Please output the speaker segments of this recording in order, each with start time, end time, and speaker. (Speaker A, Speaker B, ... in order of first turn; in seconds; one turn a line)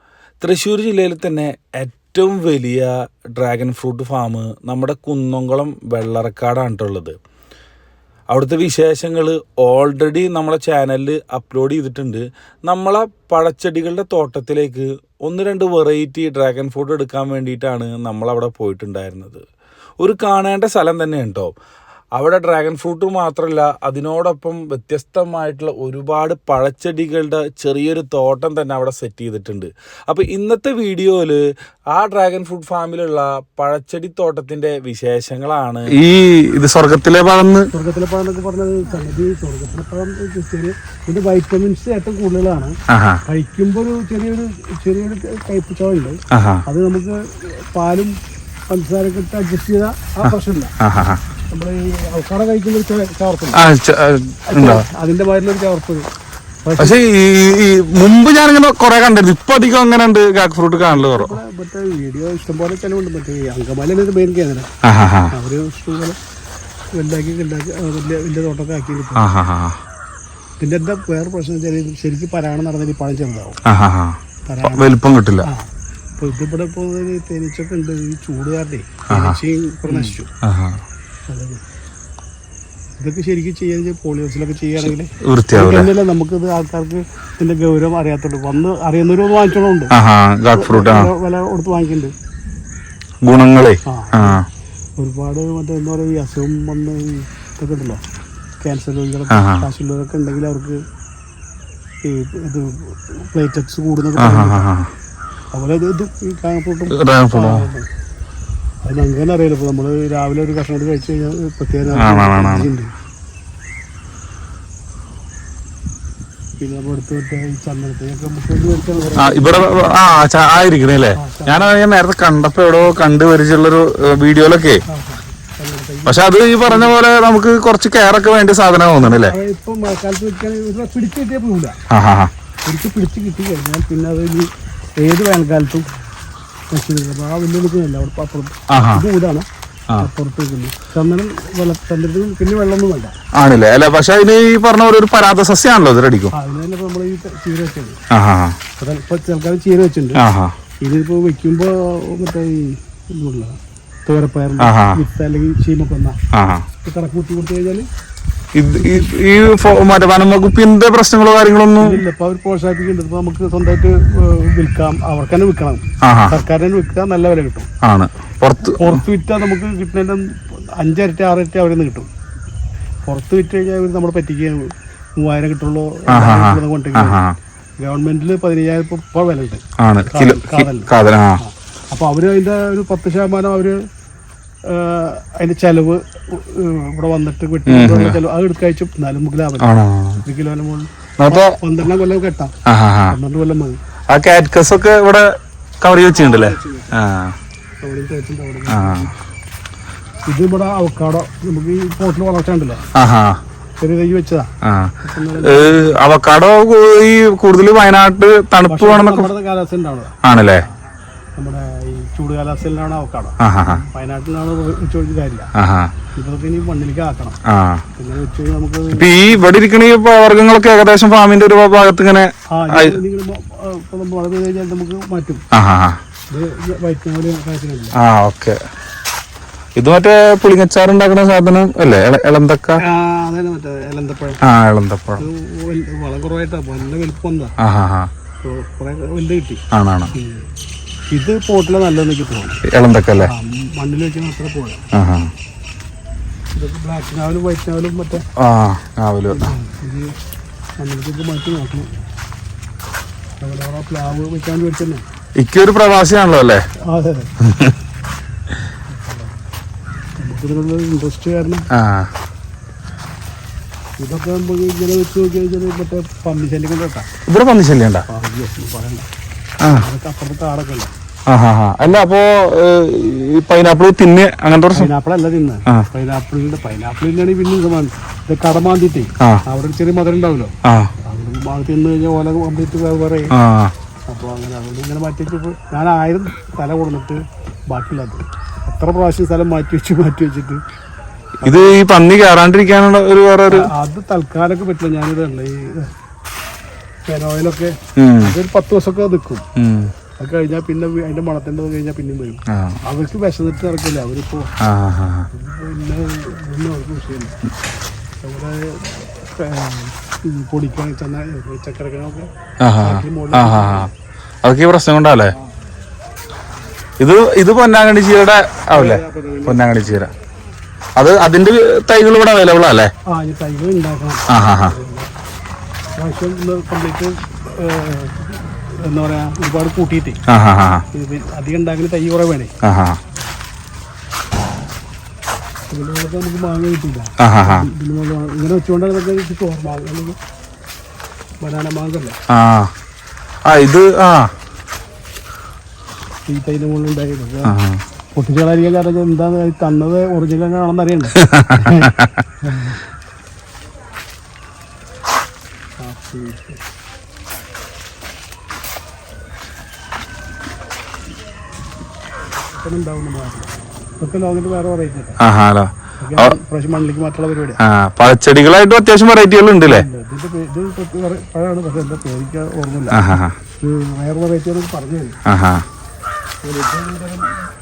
Speaker A: 0.4-7.2
Speaker A: 8.3-19.4
Speaker A: 20.0-21.5
Speaker A: 22.1-35.9
Speaker B: 35.9-37.7
Speaker C: 37.7-42.7
Speaker B: 42.9-43.2
Speaker C: 43.3-48.1
Speaker B: 46.3-46.6
Speaker C: 48.7-50.7
Speaker B: 50.2-51.2
Speaker C: 51.5-53.6
Speaker B: 53.5-54.8
Speaker C: 54.5-56.0
Speaker C: 56.6-57.0
Speaker B: 56.8-61.4
Speaker C: 60.9-64.7
Speaker B: 64.8-65.3
Speaker C: 65.3-66.2
Speaker C: 67.0-69.3
Speaker B: 69.2-69.8
Speaker C: 70.6-73.6
Speaker B: 73.7-75.5
Speaker C: 74.5-80.3
Speaker B: 79.1-80.8
Speaker C: 81.3-81.6
Speaker C: 83.0-89.9
Speaker B: 84.8-85.9
Speaker B: 89.9-91.1
Speaker C: 90.5-92.1
Speaker B: 93.2-94.5
Speaker C: 93.8-94.4
Speaker C: 95.0-98.0
Speaker C: 98.6-100.8
Speaker B: 99.3-99.7
Speaker C: 102.0-104.7
Speaker B: 104.2-104.9
Speaker C: 105.5-107.9
Speaker B: 106.9-107.7
Speaker C: 108.8-112.9
Speaker B: 111.9-112.7
Speaker C: 116.6-120.0
Speaker B: 119.2-124.8
Speaker C: 121.2-121.7
Speaker C: 124.9-126.9
Speaker B: 126.0-129.3
Speaker C: 129.0-131.8
Speaker B: 131.9-132.3
Speaker C: 132.7-135.8
Speaker C: 136.7-139.4
Speaker B: 138.7-139.0
Speaker C: 140.0-143.1
Speaker B: 143.3-146.3
Speaker C: 146.3-148.0
Speaker B: 148.1-148.6
Speaker C: 148.8-150.2
Speaker B: 150.2-150.5
Speaker C: 150.8-156.2
Speaker B: 154.6-155.0
Speaker B: 156.3-156.7
Speaker C: 156.8-157.8
Speaker B: 158.6-162.0
Speaker C: 158.6-159.1
Speaker C: 161.8-167.7
Speaker B: 166.0-166.4
Speaker B: 167.8-169.0
Speaker C: 168.6-172.1
Speaker C: 173.1-177.2
Speaker B: 176.1-177.4
Speaker C: 177.8-183.8
Speaker B: 179.8-181.4
Speaker C: 184.7-189.7
Speaker B: 187.7-188.2
Speaker B: 189.6-190.2
Speaker C: 190.2-192.5
Speaker B: 191.2-191.6
Speaker B: 192.7-193.2
Speaker C: 193.1-193.8
Speaker B: 194.1-195.3
Speaker B: 195.8-197.3
Speaker C: 196.1-196.9
Speaker C: 197.8-199.1
Speaker B: 198.7-199.1
Speaker C: 200.3-202.8
Speaker B: 202.9-203.4
Speaker C: 203.8-204.5
Speaker B: 204.6-209.3
Speaker C: 205.0-206.0
Speaker C: 208.7-210.2
Speaker B: 210.2-210.6
Speaker C: 211.3-215.5
Speaker B: 213.4-213.8
Speaker B: 215.6-215.9
Speaker C: 216.1-217.4
Speaker B: 217.5-217.8
Speaker C: 217.9-219.4
Speaker B: 218.9-223.0
Speaker C: 222.5-225.4
Speaker B: 225.5-226.0
Speaker C: 226.3-227.9
Speaker B: 228.0-228.6
Speaker B: 229.8-232.8
Speaker C: 232.8-234.4
Speaker B: 234.4-235.2
Speaker C: 235.2-237.5
Speaker B: 237.6-238.1
Speaker C: 238.4-239.6
Speaker B: 239.7-240.1
Speaker C: 240.1-240.4
Speaker C: 241.1-242.6
Speaker B: 242.7-243.3
Speaker C: 243.2-244.8
Speaker B: 244.9-245.3
Speaker C: 246.6-248.2
Speaker B: 248.4-249.5
Speaker C: 249.3-250.1
Speaker C: 250.8-251.9
Speaker C: 253.4-255.0
Speaker B: 255.4-256.6
Speaker C: 256.9-257.3
Speaker B: 257.4-257.7
Speaker C: 258.9-259.4
Speaker C: 260.2-261.7
Speaker B: 261.7-262.1
Speaker C: 264.0-267.1
Speaker B: 267.3-268.1
Speaker C: 268.1-269.1
Speaker C: 269.6-270.9
Speaker B: 271.3-274.9
Speaker C: 274.7-280.5
Speaker B: 280.6-280.9
Speaker C: 281.0-283.3
Speaker B: 283.3-283.7
Speaker C: 284.1-290.6
Speaker B: 291.4-293.7
Speaker C: 291.4-291.8
Speaker C: 293.5-295.9
Speaker C: 297.1-299.4
Speaker B: 298.0-298.3
Speaker B: 299.6-299.9
Speaker C: 300.2-304.5
Speaker B: 302.5-302.8
Speaker B: 304.6-305.3
Speaker C: 305.3-307.4
Speaker C: 308.2-312.3
Speaker B: 312.6-313.9
Speaker C: 312.8-313.9
Speaker B: 314.4-315.3
Speaker B: 317.0-320.1
Speaker C: 318.7-319.9
Speaker B: 320.9-322.9
Speaker C: 323.1-325.1
Speaker B: 324.3-324.7
Speaker C: 326.0-330.2
Speaker B: 330.3-330.8
Speaker C: 330.9-332.5
Speaker B: 332.6-333.0
Speaker C: 335.7-340.2
Speaker B: 337.2-337.7
Speaker C: 341.4-342.1
Speaker B: 342.3-342.7
Speaker B: 343.5-344.3
Speaker C: 346.3-347.5
Speaker B: 347.4-347.8
Speaker C: 348.1-352.8
Speaker B: 351.2-352.1
Speaker C: 355.8-356.6
Speaker C: 362.6-365.2
Speaker B: 365.2-366.3
Speaker C: 366.0-367.6
Speaker B: 367.6-369.9
Speaker C: 369.6-373.0
Speaker B: 372.9-373.3
Speaker C: 373.6-375.2
Speaker B: 375.3-375.6
Speaker C: 376.4-377.4